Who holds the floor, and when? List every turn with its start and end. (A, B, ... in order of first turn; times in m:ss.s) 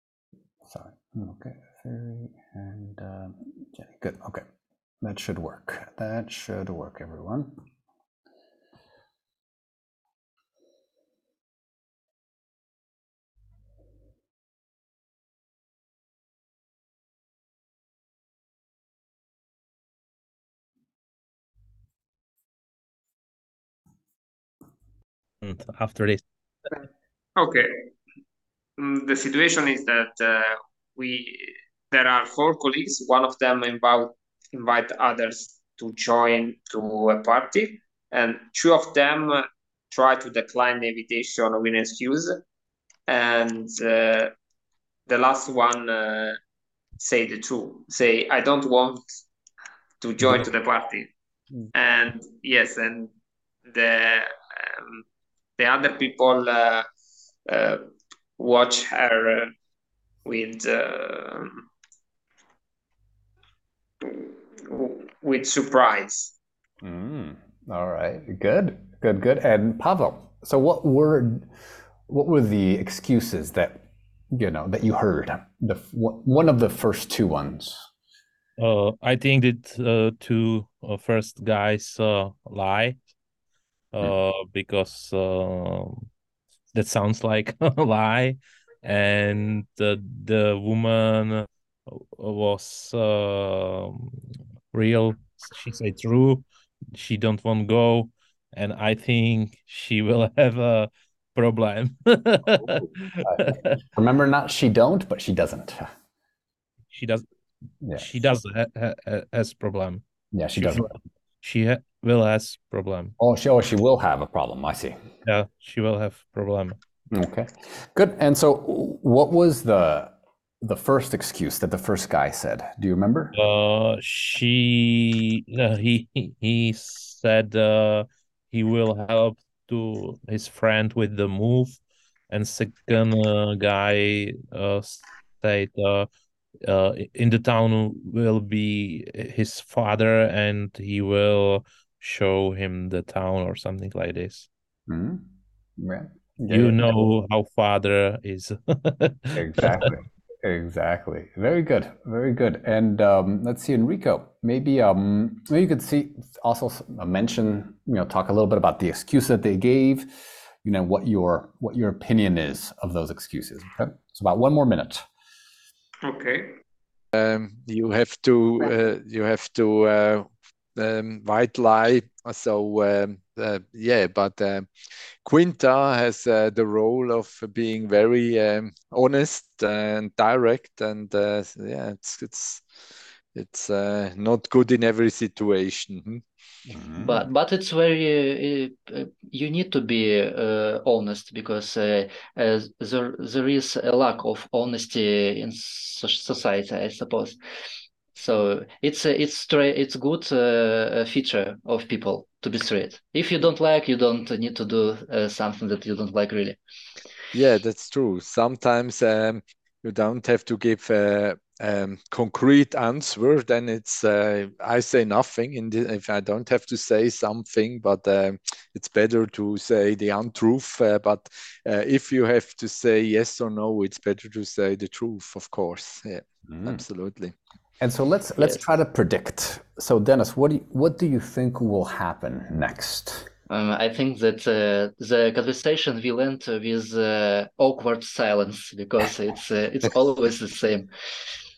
0:00.6-0:04.4 A
0:05.0-0:07.5 A
0:25.4-0:26.2 B
0:27.4-0:27.9 C
0:28.8-0:42.3 C
0:43.1-0:44.3 C
0:45.1-0:46.4 C
0:47.0-0:49.0 C
0:50.0-0:51.1 C
0:51.7-0:53.1 C
0:53.7-0:55.0 C
0:55.6-0:56.9 C
0:57.5-0:57.8 C
0:58.4-0:59.5 C
1:00.2-1:01.6 C
1:04.0-1:06.3 C
1:06.8-1:11.5 A
1:12.1-1:17.9 A
1:18.6-1:23.0 B
1:23.9-1:26.1 B
1:26.7-1:43.7 B
1:42.5-1:45.9 A
1:46.9-1:47.2 B
1:48.0-1:50.0 B
1:50.3-1:50.9 A
1:50.6-1:53.1 B
1:53.2-1:55.0 A
1:55.2-1:56.8 B
1:57.1-2:03.4 A
2:03.3-2:11.8 B
2:12.3-2:16.1 B
2:16.6-2:24.5 B
2:24.9-2:25.2 A
2:25.8-2:26.9 A
2:26.5-2:29.9 B
2:29.3-2:40.1 A
2:40.6-2:45.0 A
2:46.0-2:46.5 C
2:47.1-2:54.7 D
2:55.2-3:02.8 D
3:03.3-3:06.2 D
3:06.7-3:07.3 A
3:07.0-3:17.4 E
3:18.1-3:26.6 E
3:27.3-3:47.3 D
3:46.5-3:46.8 A
3:47.8-3:53.3 A
3:53.5-4:00.9 E